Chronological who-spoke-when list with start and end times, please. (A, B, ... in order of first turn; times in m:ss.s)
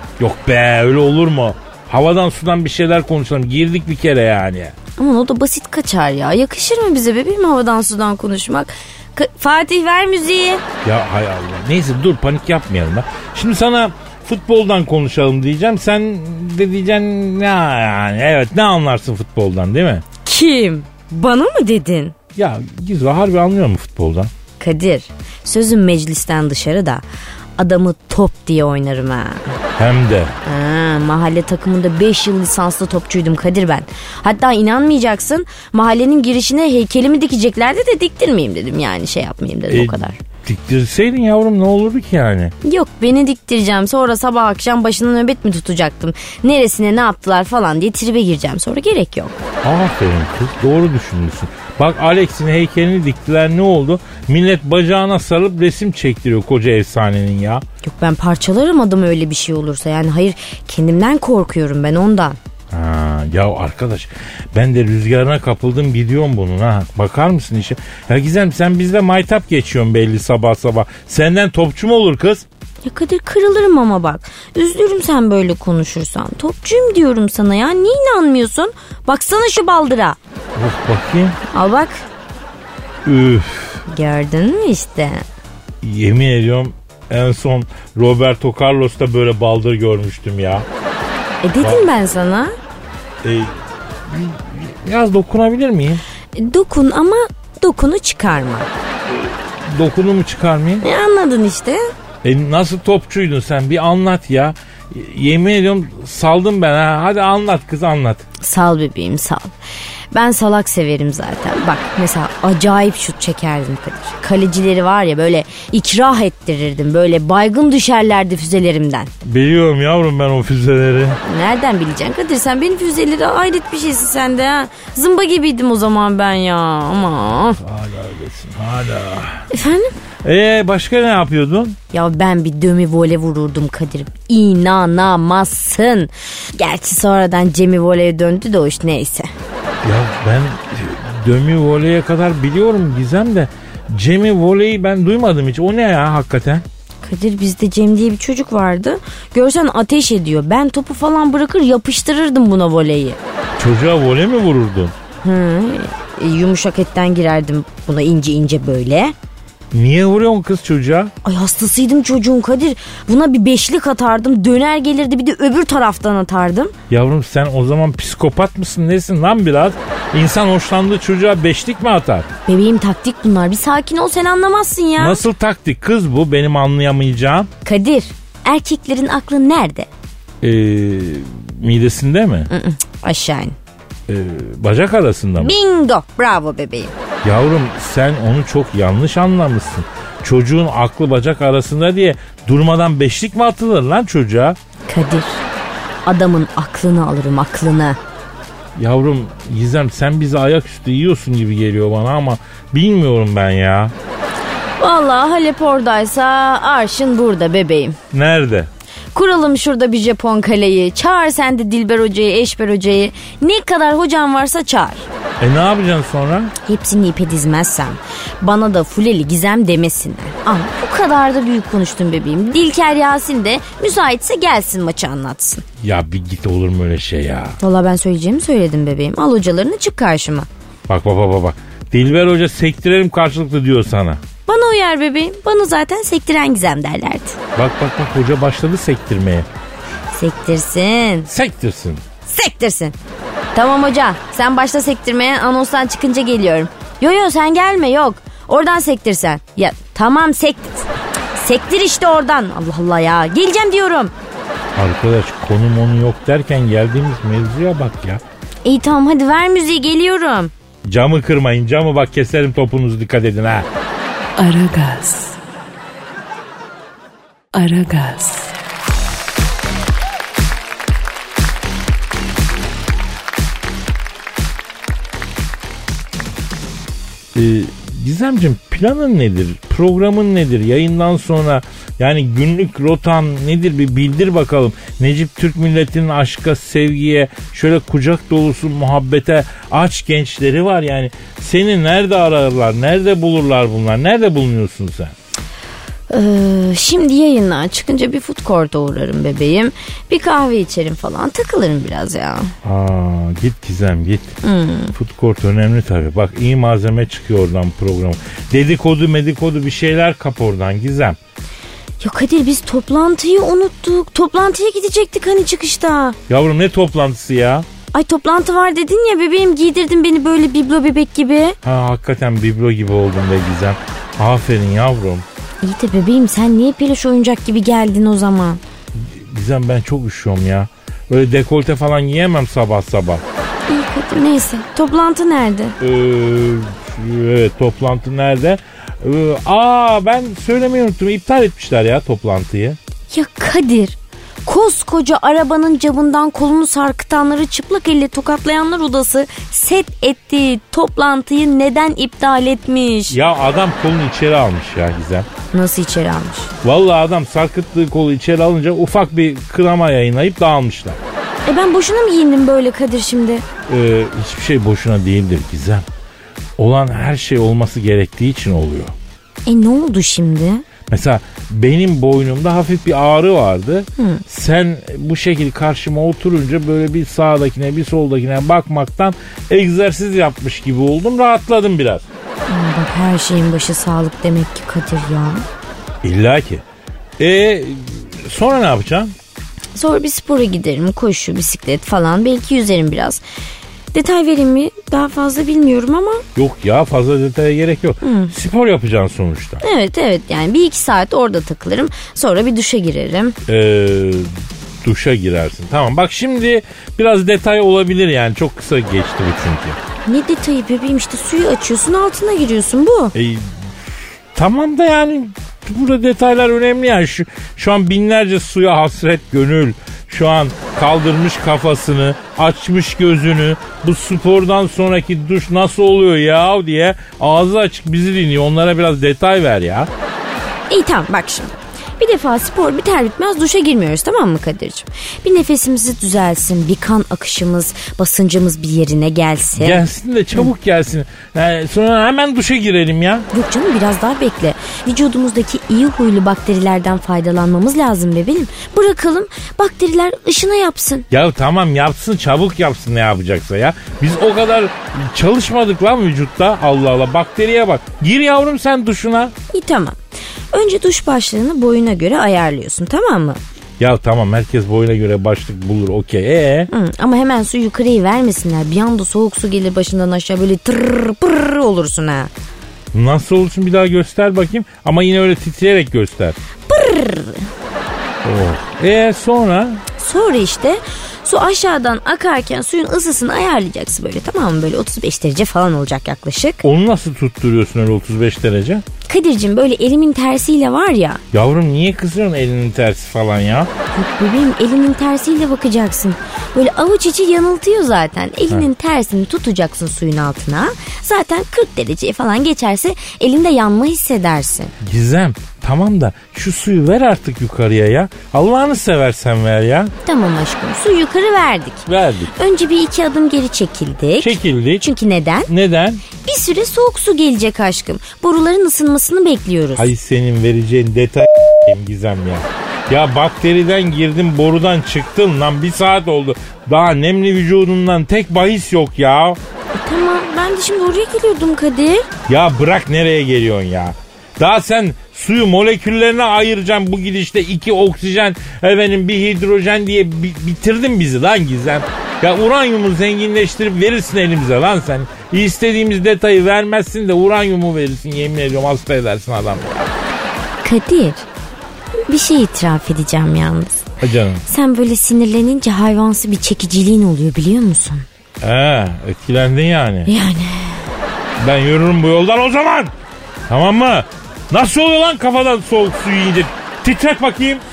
0:00.2-0:04.7 A
0:05.0-0:10.6 B
0:10.8-0:20.0 A
0:20.2-0:22.1 B
0:22.4-0:24.3 A
0:24.6-0:27.0 B
0:27.6-0:29.6 B
0:29.8-0:30.4 A
0:30.4-0:40.2 B
0:39.7-0:42.5 A
0:42.6-0:49.4 B
0:49.6-0:57.6 A
0:57.8-1:02.4 B
1:02.7-1:12.4 A
1:12.8-1:20.2 B
1:20.5-1:21.4 A
1:21.5-1:22.0 B
1:23.0-1:23.8 A
1:23.9-1:25.2 B
1:25.8-1:30.7 A
1:31.4-1:32.5 B
1:33.2-1:33.6 A
1:34.1-1:36.0 A
1:36.3-1:38.7 B
1:39.1-1:40.8 A
1:40.8-1:41.9 B
1:42.2-1:48.3 A
1:48.4-1:49.5 B
1:50.1-1:59.1 B
1:59.2-2:01.2 A
2:01.2-2:07.6 B
2:07.6-2:09.5 A
2:09.5-2:09.9 B
2:10.2-2:11.8 A
2:11.9-2:19.3 B
2:19.8-2:26.6 A
2:27.0-2:33.2 B
2:33.6-2:34.9 A
2:35.2-2:39.1 B
2:39.7-2:41.1 A
2:41.2-2:46.7 B
2:46.9-2:52.3 A
2:52.5-2:55.2 B
2:55.0-2:57.5 A
2:57.6-2:59.9 B
3:00.4-3:02.5 A
3:02.5-3:03.6 B
3:04.1-3:05.5 A
3:05.4-3:06.9 B
3:07.2-3:14.6 A
3:14.9-3:15.4 B
3:16.0-3:18.0 B
3:18.8-3:23.9 A
3:24.8-3:28.0 B
3:28.1-3:28.7 A
3:29.1-3:35.1 B
3:35.4-3:36.5 A
3:36.6-3:45.6 B
3:45.8-3:47.6 A
3:47.6-3:50.5 B
3:50.9-3:54.2 A
3:54.5-3:57.4 B
3:57.6-3:59.5 A
4:00.1-4:01.3 B
4:01.3-4:02.0 A
4:02.2-4:02.9 B
4:03.5-4:14.1 B
4:14.7-4:18.2 A
4:18.6-4:20.5 B
4:20.8-4:23.7 A
4:24.4-4:25.4 C
4:27.5-4:28.5 C
4:37.3-4:55.1 A
4:56.1-5:02.5 B
5:02.6-5:04.4 A
5:04.4-5:04.9 B
5:05.0-5:11.2 A
5:12.0-5:16.2 B
5:16.3-5:17.6 A
5:17.9-5:21.6 B
5:21.6-5:25.2 A
5:25.6-5:28.6 B
5:29.0-5:33.2 A
5:33.7-5:35.8 B
5:35.8-5:42.8 A
5:43.1-5:53.2 B
5:53.1-5:55.3 A
5:55.5-5:56.5 B
5:56.6-6:01.0 A
6:01.4-6:03.4 B
6:03.7-6:05.8 A
6:06.6-6:08.9 A
6:09.4-6:10.6 B
6:10.9-6:22.0 A
6:14.0-6:14.2 B
6:22.5-6:25.4 B
6:26.0-6:26.6 A
6:27.2-6:29.1 A
6:29.7-6:33.2 B
6:33.9-6:36.2 B
6:36.4-6:39.6 A
6:38.0-6:38.3 B
6:39.6-6:43.4 B
6:43.5-6:44.3 A
6:44.8-6:49.8 A
6:50.0-6:53.1 B
6:53.1-7:09.9 A
7:10.7-7:19.8 B
7:19.6-7:23.3 A
7:23.3-7:31.0 B
7:31.1-7:39.3 A
7:39.5-7:40.0 B
7:40.5-7:43.4 B
7:43.8-7:46.7 A
7:46.7-7:52.3 B
7:52.9-7:56.4 A
7:56.7-7:57.5 B
7:58.2-7:59.8 A
8:00.0-8:06.6 B
8:06.6-8:08.8 A
8:09.1-8:11.2 B
8:11.3-8:13.7 A
8:13.9-8:24.7 B
8:24.8-8:29.9 A
8:30.0-8:35.5 B
8:31.9-8:32.3 A
8:34.2-8:34.8 A
8:35.5-8:36.0 A
8:36.2-8:39.9 B
8:39.8-8:49.4 A
8:49.7-8:52.1 B
8:52.3-9:09.9 A
9:10.6-9:11.3 B
9:12.1-9:13.8 B
9:14.0-9:14.4 A
9:14.5-9:18.0 B
9:18.4-9:20.1 A
9:20.1-9:20.9 B
9:21.4-9:22.9 A
9:23.5-9:27.6 A